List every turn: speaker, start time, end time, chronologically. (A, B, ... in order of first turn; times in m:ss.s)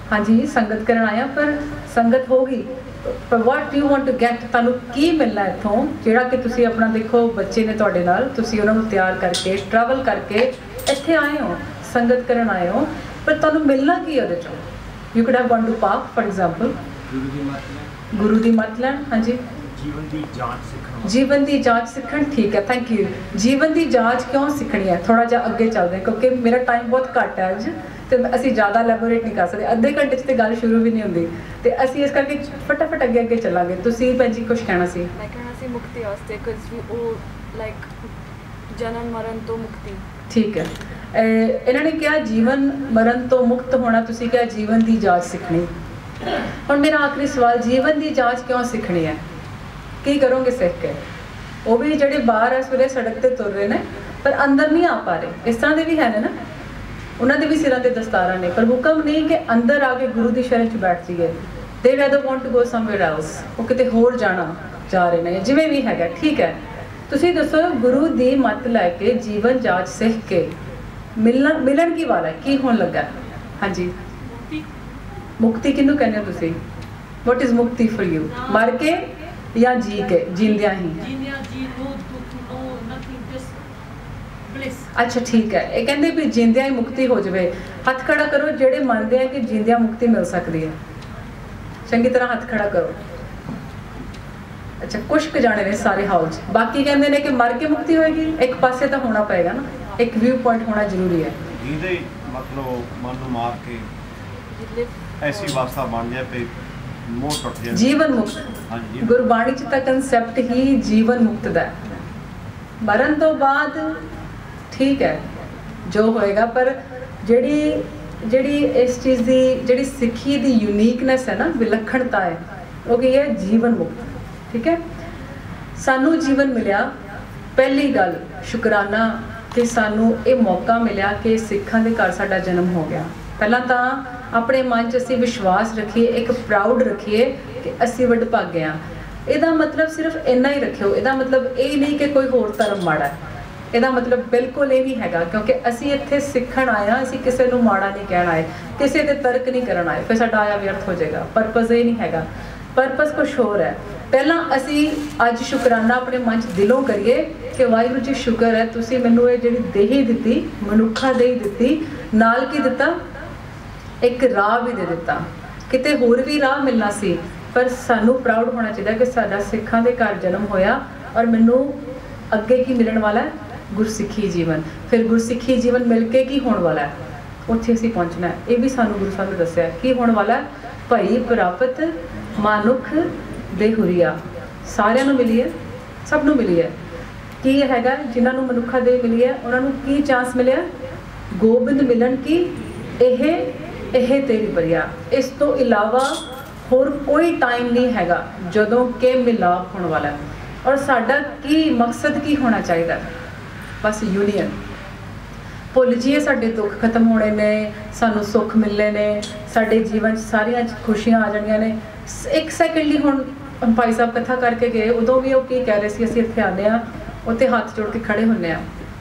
0:00.1-0:16.8 A
0:17.1-0:17.9 B
0:18.1-0:19.4 A
0:19.8-0:21.2 B
0:21.0-0:35.1 A
0:35.1-0:37.9 C
0:38.7-0:40.0 C
0:40.3-0:45.7 A
0:46.7-0:49.2 A
0:50.0-0:51.0 A
0:51.6-0:56.3 A
0:57.2-1:10.5 A
1:11.2-1:13.9 A
1:14.3-1:14.6 C
1:15.4-1:16.6 A
1:17.2-1:21.0 A
1:21.0-1:23.5 C
1:24.5-1:24.9 C
1:25.0-1:30.8 A
1:31.9-1:33.0 A
1:34.8-1:41.4 A
1:41.6-1:43.9 D
1:44.5-1:45.6 C
1:45.2-1:46.5 D
1:47.0-1:48.0 D
1:47.7-1:52.0 A
1:48.7-1:49.2 D
1:52.8-1:54.0 A
1:54.7-1:55.2 A
1:55.9-2:04.8 A
2:05.8-2:06.9 A
2:07.6-2:23.2 A
2:23.7-2:43.0 A
2:44.0-2:56.9 A
2:57.5-3:05.5 A
3:06.0-3:06.7 A
3:07.4-3:10.7 A
3:11.3-3:23.1 A
3:23.8-3:24.6 A
3:25.7-3:38.7 A